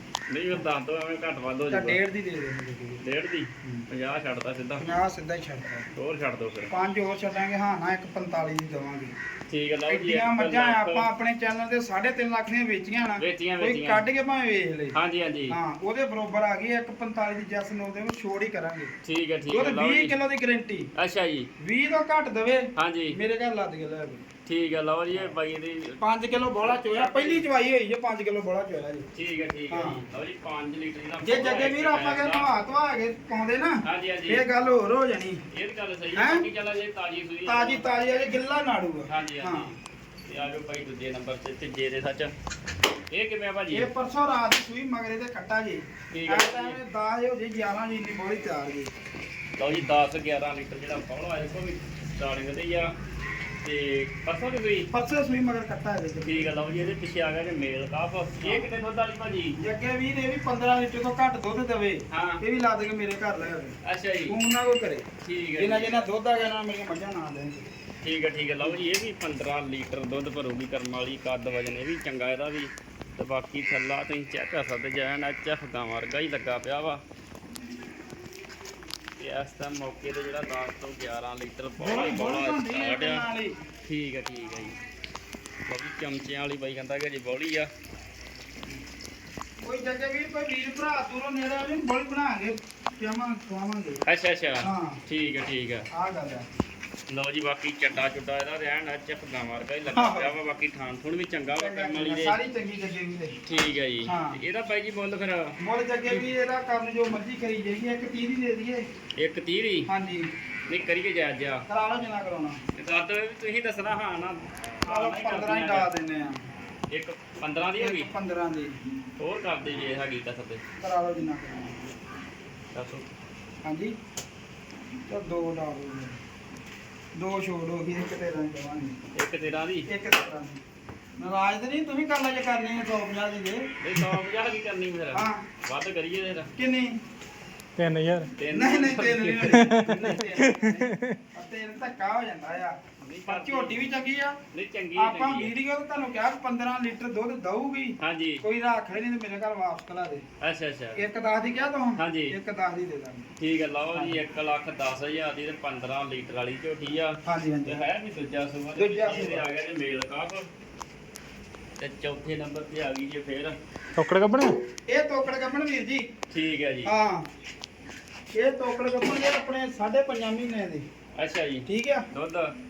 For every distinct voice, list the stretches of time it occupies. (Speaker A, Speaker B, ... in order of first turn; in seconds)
Speaker A: 0.3-2.0, 3.0-4.9, 5.9-6.7, 9.5-11.1, 13.2-14.0, 14.9-15.6, 19.0-20.1, 20.9-21.5, 22.7-23.2, 24.4-26.0, 26.6-27.5, 29.1-32.5, 33.8-34.4, 35.5-37.9, 39.1-42.3, 43.1-43.9, 46.1-46.8, 49.6-52.9, 53.6-54.9, 56.2-59.6, 62.1-62.4, 63.8-64.3, 65.2-66.1, 68.0-77.0, 79.2-83.3, 83.8-84.8, 85.7-87.7, 94.0-95.9, 97.1-102.4, 103.5-105.6, 109.2-109.9, 110.7-111.7, 112.7-115.9, 116.9-118.1, 119.2-120.6, 122.7-123.0, 129.1-129.9, 133.8-136.5, 138.4-139.7, 143.0-143.8, 144.5-145.5, 148.0-148.4, 150.4-151.0, 151.9-152.3, 153.4-160.5, 161.8-163.5, 166.3-166.9, 171.2-172.5
Speaker B: 1.7-3.0, 4.8-5.9, 6.7-9.2, 9.9-14.9, 15.5-18.9, 19.5-20.9, 21.6-24.2, 26.0-29.1, 29.7-30.0, 31.2-35.4, 36.1-36.5, 37.5-39.7, 43.7-48.9, 54.9-56.5, 58.4-58.7, 59.6-63.8, 64.3-65.0, 65.6-67.7, 81.8-83.6, 89.6-94.0, 94.6-95.0, 95.9-96.5, 99.9-100.3, 101.5-103.4, 104.0-104.4, 105.6-108.9, 109.9-110.3, 111.7-112.6, 114.8-116.4, 117.8-118.8, 120.8-121.8, 123.6-123.9, 125.1-126.2, 127.1-129.0, 129.9-130.6, 131.2-133.7, 135.1-135.4, 136.6-137.0, 138.5-144.4, 144.9-150.2, 150.9-153.3, 153.9-154.2, 157.2-157.8, 158.8-159.5, 164.9-166.1, 166.8-167.2, 168.3-170.9, 171.7-172.1
Speaker C: 137.8-138.3, 139.4-141.2, 163.9-164.6